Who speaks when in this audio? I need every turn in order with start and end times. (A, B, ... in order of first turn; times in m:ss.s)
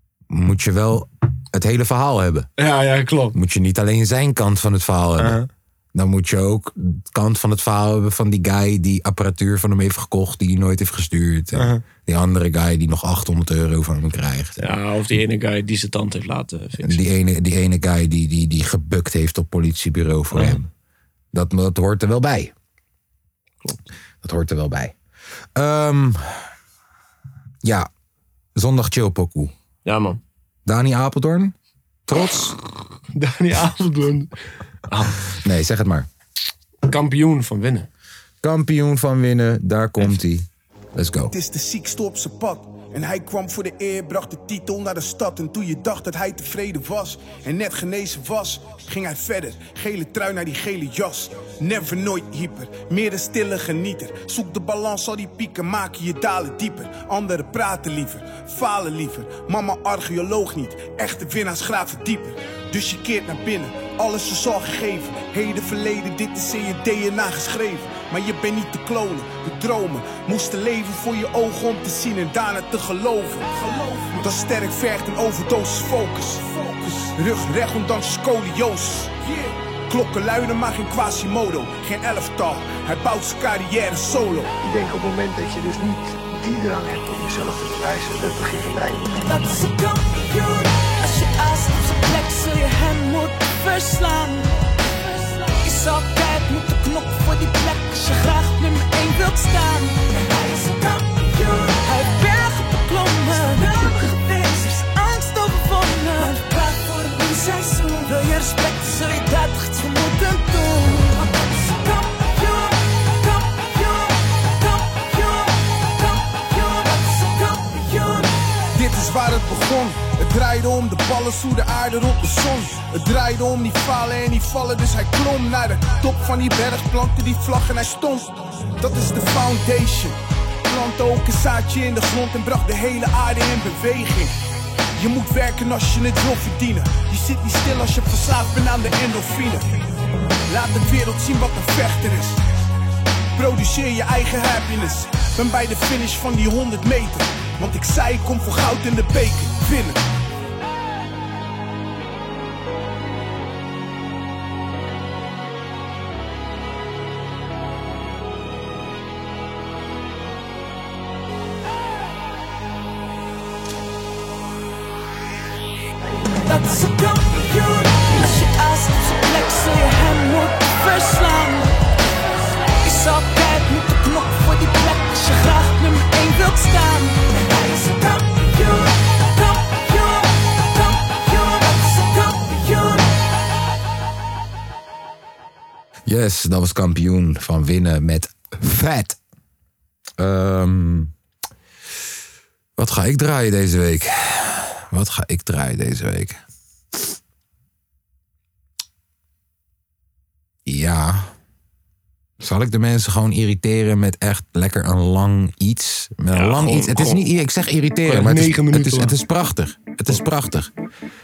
0:00.3-0:02.5 A
0:02.6-0:03.4 B
0:03.3-0:05.4 A
0:05.2-0:05.5 B
0:05.9-0:14.6 A
0:11.6-0:11.8 B
0:14.6-0:17.0 B
0:16.8-0:20.7 A
0:20.3-0:20.6 B
0:21.3-0:22.5 A
0:24.2-0:25.0 A
0:25.6-0:26.5 A
0:27.6-0:27.9 A
0:28.6-0:29.5 A
0:29.8-0:30.2 B
0:30.7-0:31.6 A
0:32.1-0:32.6 A
0:33.1-0:34.3 B
0:34.9-0:35.2 B
0:35.3-0:36.1 A
0:36.9-0:37.9 B
0:38.4-0:41.4 A
0:41.3-1:24.6 C
1:24.7-1:29.0 D
1:29.1-1:58.8 E
1:58.8-2:14.3 C
2:14.9-2:19.8 C
2:20.5-2:22.4 C
2:23.4-2:30.0 C
2:46.3-2:51.7 E
2:52.8-3:03.3 E
3:06.1-3:09.2 A
3:10.2-3:11.1 A
3:12.8-3:16.4 A
3:20.7-3:21.3 A
3:22.4-3:30.7 A
3:26.3-3:27.2 B
3:28.0-3:29.2 B